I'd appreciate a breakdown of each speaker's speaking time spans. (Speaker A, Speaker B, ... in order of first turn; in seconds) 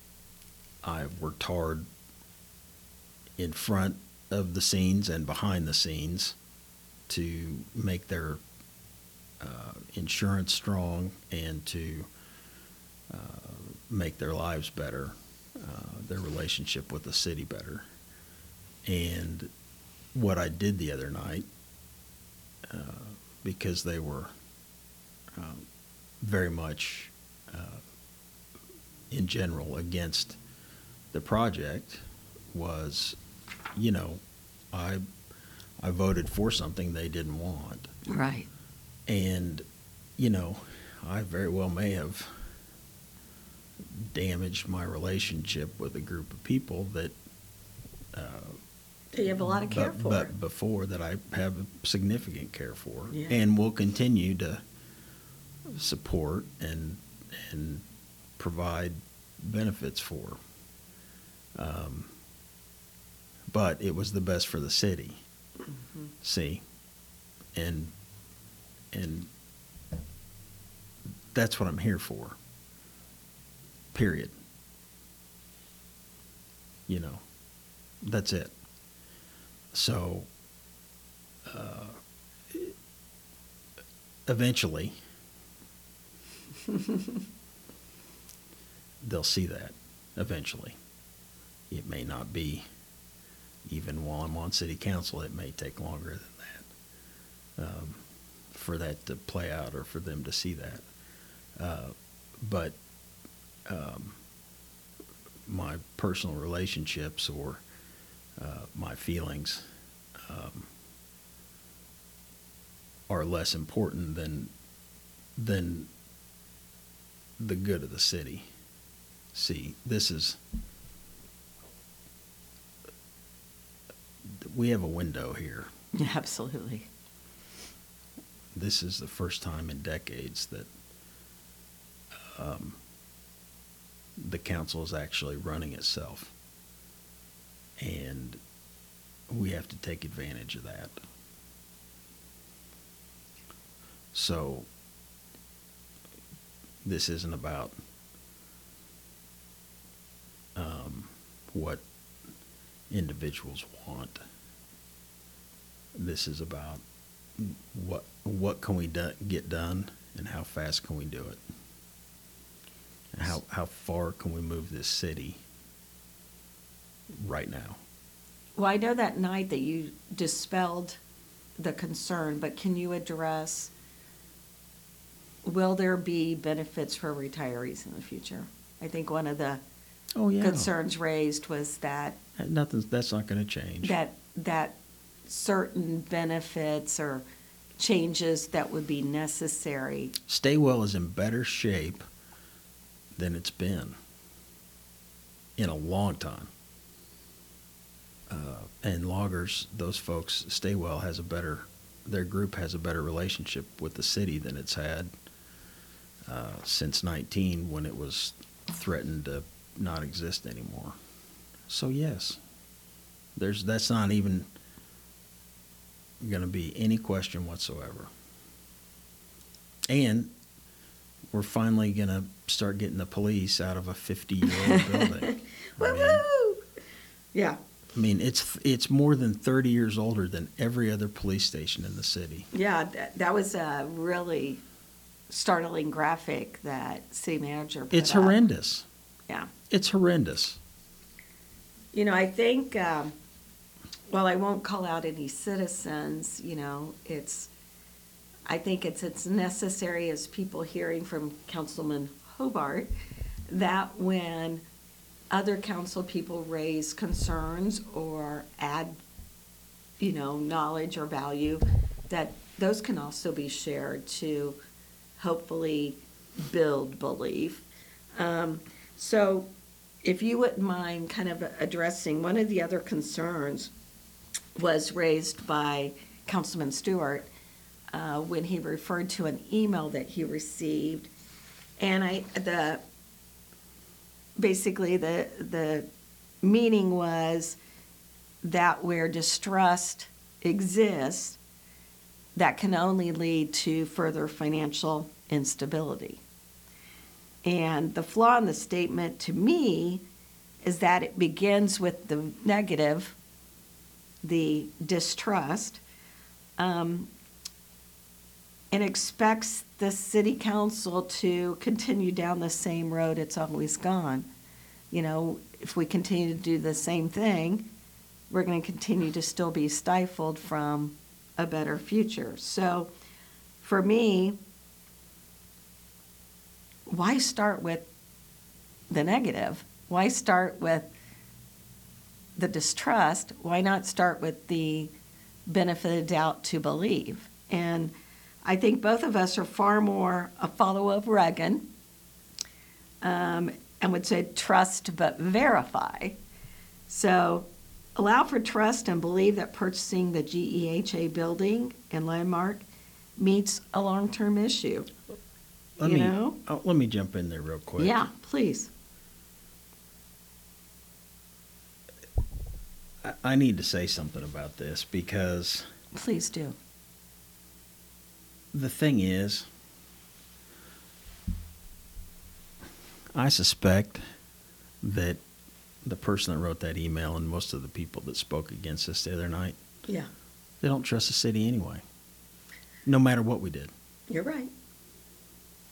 Speaker A: 0.8-1.9, 3.4-6.4, 7.1-8.4, 9.4-12.1, 13.1-17.9, 18.9-19.5, 20.1-21.5, 22.6-24.3, 25.3-25.7, 26.2-27.8, 29.1-30.4, 31.1-33.2, 33.8-35.0, 35.8-37.9, 39.1-39.6, 40.2-42.5, 43.8-47.2, 48.1-48.6, 49.4-54.6, 55.7-57.9, 58.4-60.4, 61.5-62.1, 63.5-65.2, 66.2-66.6, 67.5-67.9, 68.9-69.3, 71.3-72.4, 73.9-74.3, 76.9-77.2, 78.0-78.5, 79.7-80.3, 81.5-82.0, 84.3-85.0, 89.0-90.8, 91.7-92.7, 93.7-96.7, 97.6-100.8, 101.6-102.8, 103.7-104.2, 105.5-107.6, 108.4-109.7, 110.2-110.7, 113.1-114.5, 115.4-115.9, 117.4-118.5, 119.3-120.4, 124.3-125.7, 128.5-130.7, 132.3-132.8, 134.2-136.3, 137.8-138.4, 139.3-141.0, 144.1-144.7, 146.8-147.7, 150.6-151.8, 152.9-154.2, 155.9-156.8, 157.4-161.4, 163.1-165.4, 167.1-167.8, 180.2-180.7, 182.4-184.0, 190.3-192.0, 193.2-194.0, 195.6-196.5, 198.3-205.1, 206.3-211.0, 211.7-212.4, 213.4-214.5, 216.2-218.1, 219.9-220.3, 221.3-226.2, 227.9-232.5, 237.9-238.9, 239.7-240.6, 355.8-358.0, 363.0-365.7, 368.5-369.5, 373.1-374.0, 374.8-375.2, 375.8-379.6, 380.6-381.8, 382.9-383.7
Speaker B: 38.1-38.5, 49.1-50.3, 53.1-53.4, 125.9-126.9, 168.6-171.0, 171.6-173.7, 175.4-179.6, 180.4-182.2, 183.8-187.2, 187.8-190.1, 224.5-226.6, 232.5-234.6, 235.3-238.4, 241.9-243.1, 244.1-247.5, 248.5-252.9, 253.5-254.6, 255.3-259.0, 260.0-264.6, 265.2-267.6, 268.2-269.5, 270.0-273.7, 274.6-277.3, 277.9-281.1, 281.8-282.8, 284.4-285.9, 286.4-287.6, 288.4-291.4, 292.4-296.2, 297.4-300.0, 300.6-303.2, 304.2-305.8, 306.6-307.1, 308.7-314.3, 314.9-317.7, 318.3-322.9, 323.6-324.4, 326.9-327.9, 328.9-330.9, 332.4-334.9, 335.5-337.9, 338.4-341.7, 343.0-346.2, 346.9-352.6, 353.2-354.9, 355.8-356.4, 357.8-358.7, 365.9-366.6, 384.1-384.5